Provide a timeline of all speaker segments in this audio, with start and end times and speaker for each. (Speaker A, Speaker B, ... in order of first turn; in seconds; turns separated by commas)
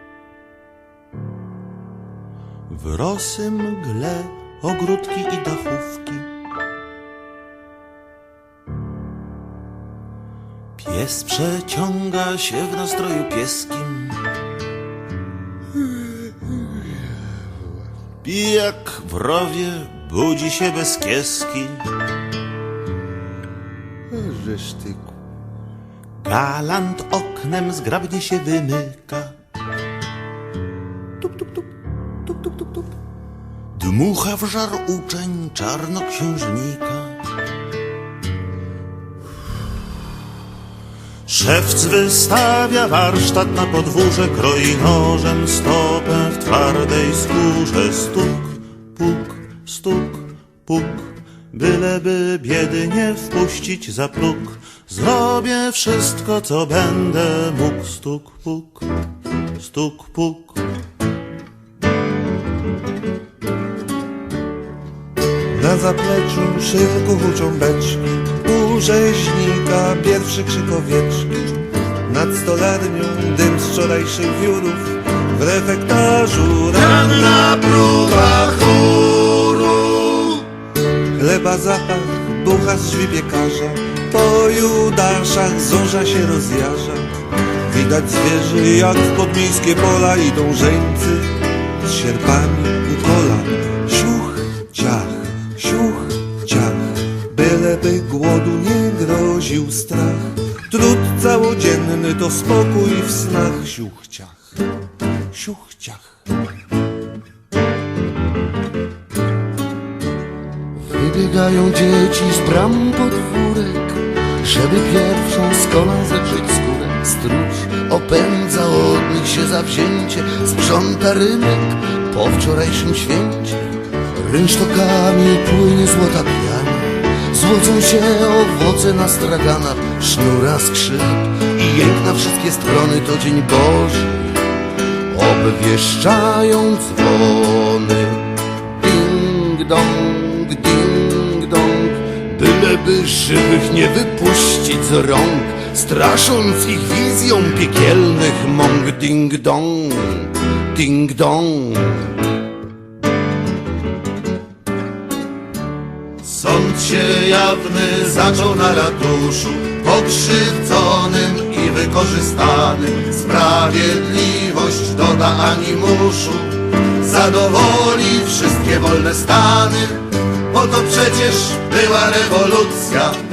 Speaker A: 2.7-6.3, Speaker A: 10.8-14.2, Speaker A: 18.2-21.9, Speaker B: 24.1-25.1, Speaker A: 26.2-29.4, Speaker A: 33.7-37.2, Speaker A: 41.3-58.9, Speaker A: 59.5-60.6, Speaker B: 65.5-77.1, Speaker A: 77.0-79.0, Speaker C: 78.2-80.3, Speaker B: 81.1-87.1, Speaker B: 87.7-104.4, Speaker B: 105.3-106.1, Speaker C: 110.8-134.4, Speaker C: 135.1-152.1, Speaker A: 156.2-166.5, Speaker C: 166.9-167.3, Speaker A: 167.2-169.9, Speaker C: 168.4-168.8, Speaker A: 170.6-173.2